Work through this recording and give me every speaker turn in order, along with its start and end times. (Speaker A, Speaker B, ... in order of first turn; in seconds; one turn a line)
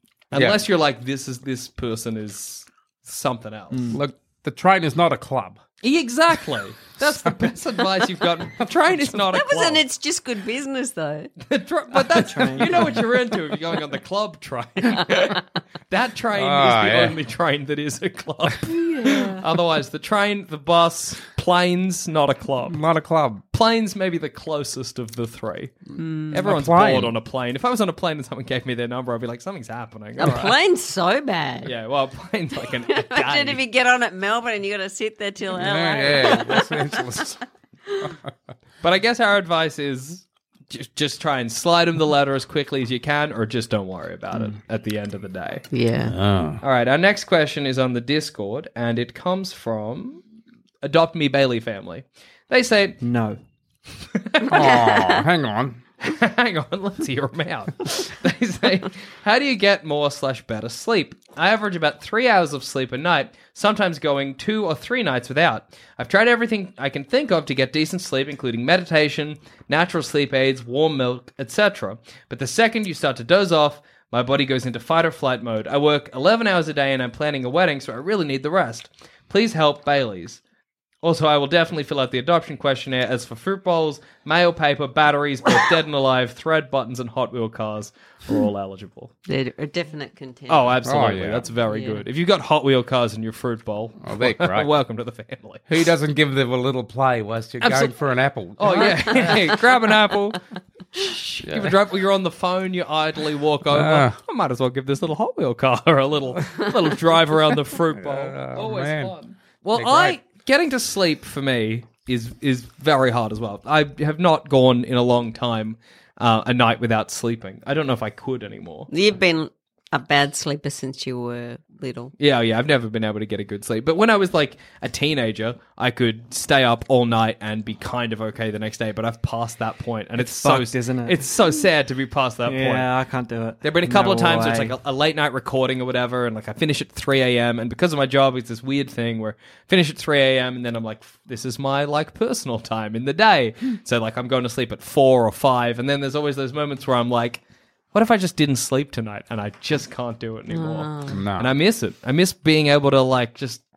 Speaker A: 0.3-3.9
Speaker B: 0.3-0.6
Speaker C: 3.7-4.0
Speaker B: 3.9-5.6
Speaker A: 5.8-9.8
Speaker D: 9.3-11.3
Speaker A: 11.4-22.8
Speaker C: 11.9-13.1
Speaker B: 16.3-17.2
Speaker D: 18.7-19.4
Speaker B: 22.6-23.4
Speaker A: 23.5-25.8
Speaker D: 26.0-26.4
Speaker A: 26.3-30.6
Speaker B: 26.4-27.1
Speaker D: 30.2-31.7
Speaker A: 31.6-33.6
Speaker D: 32.6-37.0
Speaker B: 35.5-37.4
Speaker A: 38.8-45.6
Speaker D: 45.7-46.1
Speaker B: 46.1-46.6
Speaker A: 46.6-50.2
Speaker A: 50.8-53.0
Speaker C: 53.0-53.4
Speaker A: 54.1-54.9
Speaker B: 54.5-55.8
Speaker D: 54.6-55.1
Speaker A: 56.0-80.4
Speaker A: 81.0-89.1
Speaker D: 89.3-90.8
Speaker A: 90.5-95.9
Speaker B: 90.8-91.5
Speaker D: 91.6-92.0
Speaker B: 94.0-94.7
Speaker B: 95.7-99.5
Speaker A: 97.6-97.9
Speaker A: 98.6-100.4
Speaker A: 100.9-118.9
Speaker B: 101.4-101.8
Speaker B: 103.7-104.2
Speaker B: 107.9-109.1
Speaker B: 109.7-110.2
Speaker D: 118.9-122.1
Speaker A: 122.2-132.9
Speaker C: 130.2-131.3
Speaker C: 132.4-134.8
Speaker A: 133.6-147.4
Speaker A: 147.9-153.6
Speaker D: 150.5-151.2
Speaker B: 151.1-151.5